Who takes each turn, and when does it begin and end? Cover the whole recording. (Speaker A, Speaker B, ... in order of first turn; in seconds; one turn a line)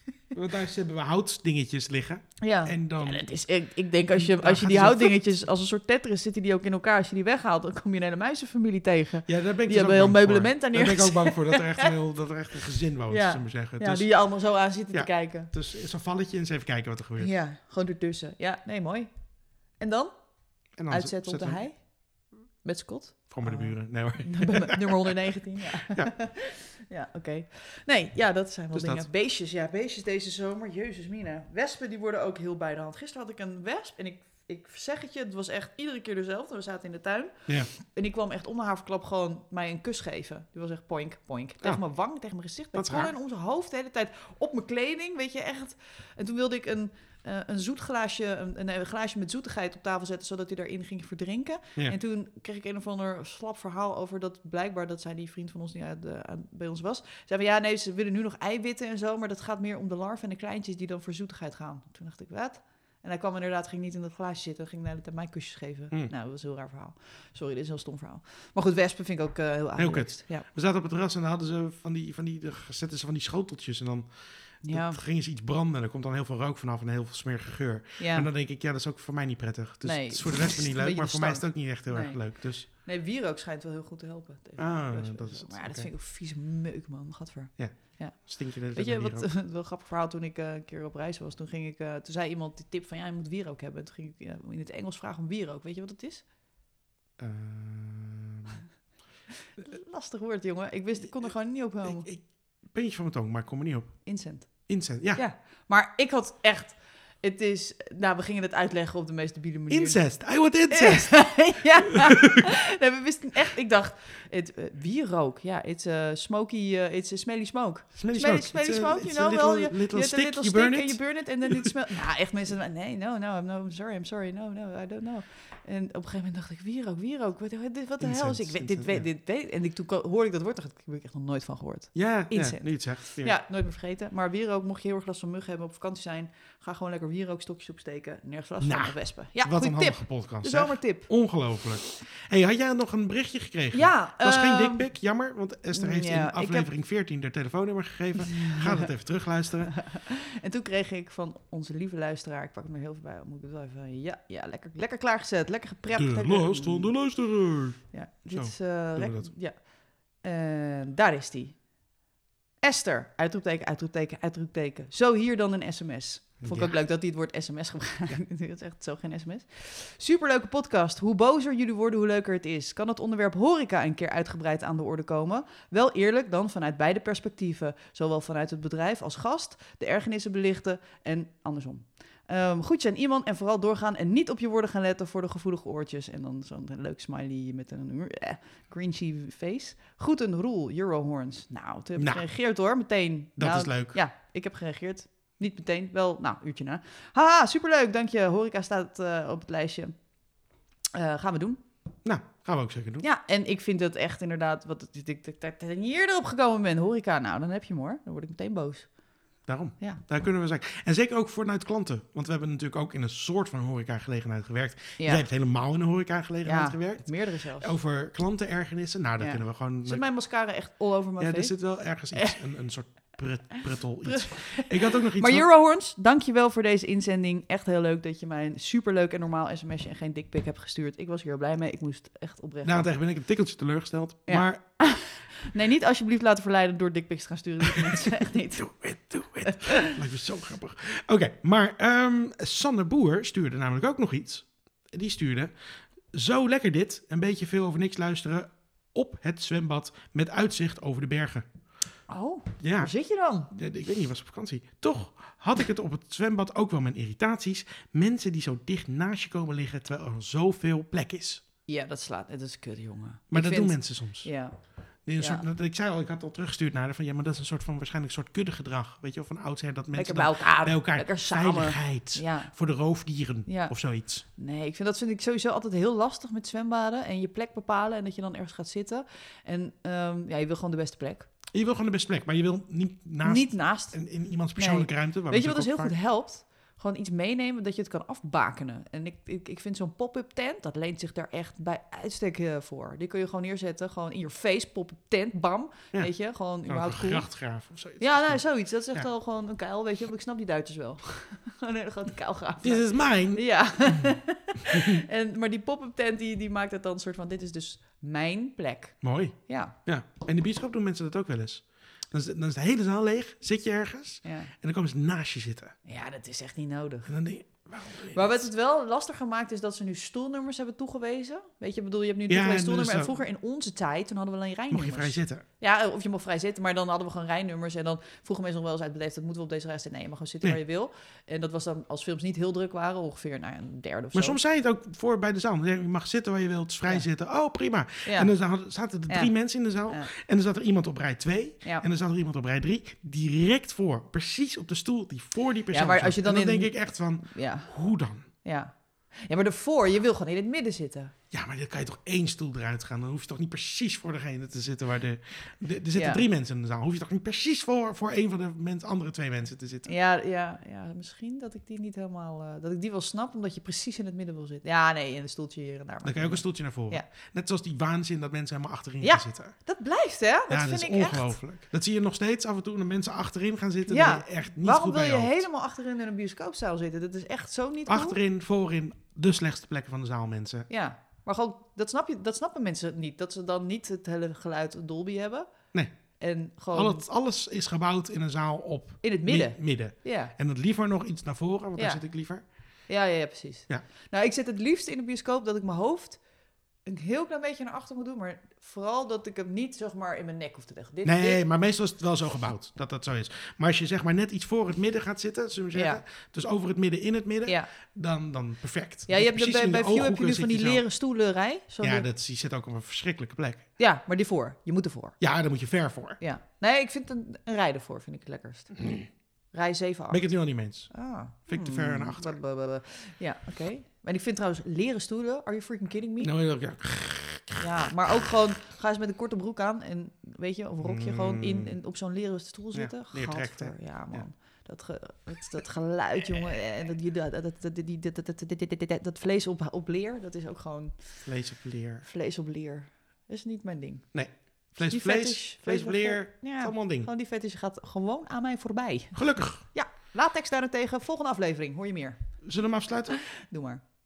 Speaker A: 0.2-3.2
Speaker B: 2.4-11.9
Speaker A: 4.2-5.2
Speaker A: 9.2-14.1
Speaker B: 13.1-15.5
Speaker A: 14.9-17.3
Speaker B: 17.2-70.5
Speaker A: 20.8-21.6
Speaker A: 23.3-25.2
Speaker A: 25.9-26.1
Speaker A: 28.7-29.1
Speaker A: 42.7-43.1
Speaker A: 69.8-82.7
Speaker B: 74.6-75.0
Speaker B: 78.0-78.3
Speaker B: 79.8-96.3
Speaker A: 84.6-85.9
Speaker A: 87.6-89.3
Speaker A: 97.2-98.6
Speaker B: 99.6-102.1
Speaker A: 101.8-105.2
Speaker B: 104.0-141.2
Speaker A: 109.7-111.6
Speaker A: 118.0-121.7
Speaker A: 128.0-129.0
Speaker A: 131.9-133.3
Speaker A: 138.6-149.8
Speaker B: 143.7-144.9
Speaker B: 145.7-146.7
Speaker B: 148.2-148.9
Speaker B: 149.8-157.1
Speaker A: 155.9-159.3
Speaker B: 157.9-161.9
Speaker B: 162.6-200.1
Speaker A: 166.4-166.8
Speaker A: 192.0-192.3
Speaker A: 193.4-193.9
Speaker B: 200.9-201.6
Speaker A: 202.0-203.1
Speaker B: 203.0-209.0
Speaker A: 209.4-220.1
Speaker B: 215.0-215.2
Speaker B: 216.4-217.7
Speaker B: 219.2-222.4
Speaker A: 221.2-225.5
Speaker B: 224.1-232.9
Speaker A: 232.6-235.1
Speaker B: 234.3-239.7
Speaker A: 238.6-245.5
Speaker A: 246.1-251.5
Speaker B: 252.1-253.5
Speaker A: 252.6-252.9
Speaker A: 253.5-261.4
Speaker B: 261.7-265.4
Speaker A: 263.3-274.2
Speaker B: 269.9-272.5
Speaker B: 273.4-281.3
Speaker A: 281.5-285.9
Speaker B: 283.2-297.4
Speaker A: 295.9-299.1
Speaker B: 298.0-309.8
Speaker A: 302.6-304.1
Speaker A: 304.7-305.0
Speaker A: 309.0-315.7
Speaker B: 314.2-314.5
Speaker B: 315.8-334.4
Speaker A: 317.1-318.2
Speaker A: 322.3-323.1
Speaker A: 324.7-325.4
Speaker A: 334.1-348.3
Speaker B: 338.1-338.3
Speaker B: 339.1-340.1
Speaker B: 345.7-351.1
Speaker A: 351.3-359.9
Speaker B: 355.9-356.2
Speaker B: 359.8-367.1
Speaker A: 366.0-369.6
Speaker B: 369.0-371.3
Speaker A: 370.5-375.4
Speaker B: 373.9-378.2
Speaker A: 377.9-380.7
Speaker B: 380.7-387.0
Speaker A: 385.7-392.4
Speaker B: 389.0-390.3
Speaker B: 391.8-396.2
Speaker B: 396.8-401.4
Speaker A: 401.0-410.8
Speaker B: 405.7-406.0
Speaker B: 409.1-412.1
Speaker A: 411.8-413.7
Speaker B: 413.8-415.2
Speaker A: 415.2-416.2
Speaker B: 416.2-418.9
Speaker B: 419.5-420.3
Speaker A: 420.1-420.9
Speaker B: 420.9-426.3
Speaker A: 421.4-422.4
Speaker A: 426.2-427.9
Speaker B: 427.6-441.4
Speaker A: 430.8-431.7
Speaker A: 432.7-434.3
Speaker A: 441.2-442.1
Speaker B: 442.0-452.4
Speaker A: 444.1-447.1
Speaker A: 449.1-449.6
Speaker A: 452.4-453.3
Speaker B: 453.1-453.8